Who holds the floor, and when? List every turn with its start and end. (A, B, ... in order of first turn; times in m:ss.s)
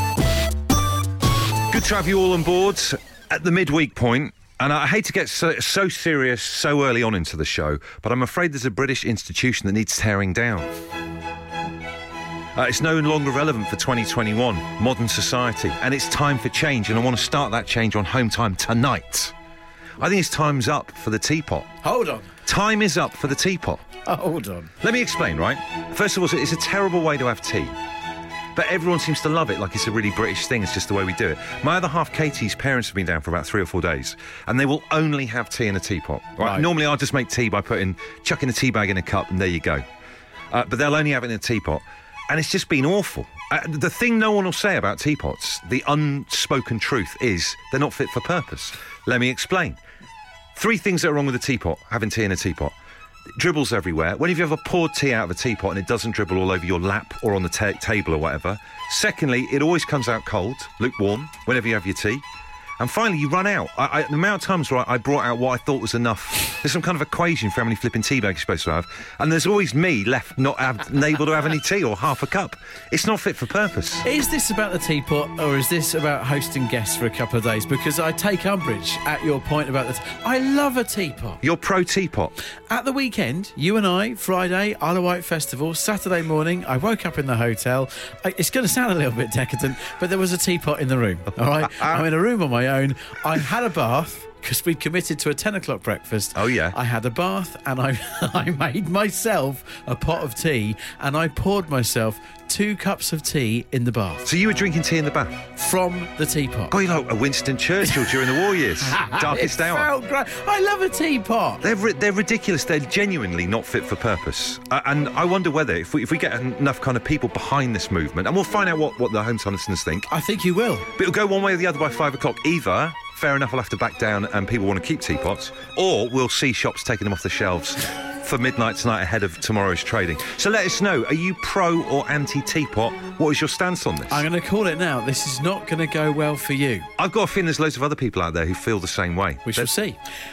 0:01.7-0:10.7 A
0:12.6-0:19.3 A
0:20.0-0:21.7 A
0:21.8-0:22.3 B
0:22.4-0:23.8 A
0:24.0-0:24.7 B
0:24.8-0:27.7 A
0:28.5-0:39.8 A
0:36.4-0:36.7 B
0:40.5-0:49.8 A
0:50.5-0:52.7 A
0:53.4-1:02.2 A
1:02.8-1:14.0 A
1:14.0-1:21.4 B
1:21.4-1:22.3 A
1:22.7-1:44.3 B
1:31.8-1:32.0 A
1:36.3-1:36.8 A
1:44.2-1:45.4 A
1:45.6-1:46.7 B
1:46.7-1:49.9 A
1:47.9-1:48.2 B
1:48.8-1:51.6 B
1:51.6-2:00.1 A
2:00.1-2:00.9 B
2:01.0-2:14.2 A
2:14.1-2:16.9 B
2:17.0-2:19.7 A
2:19.4-2:20.0 B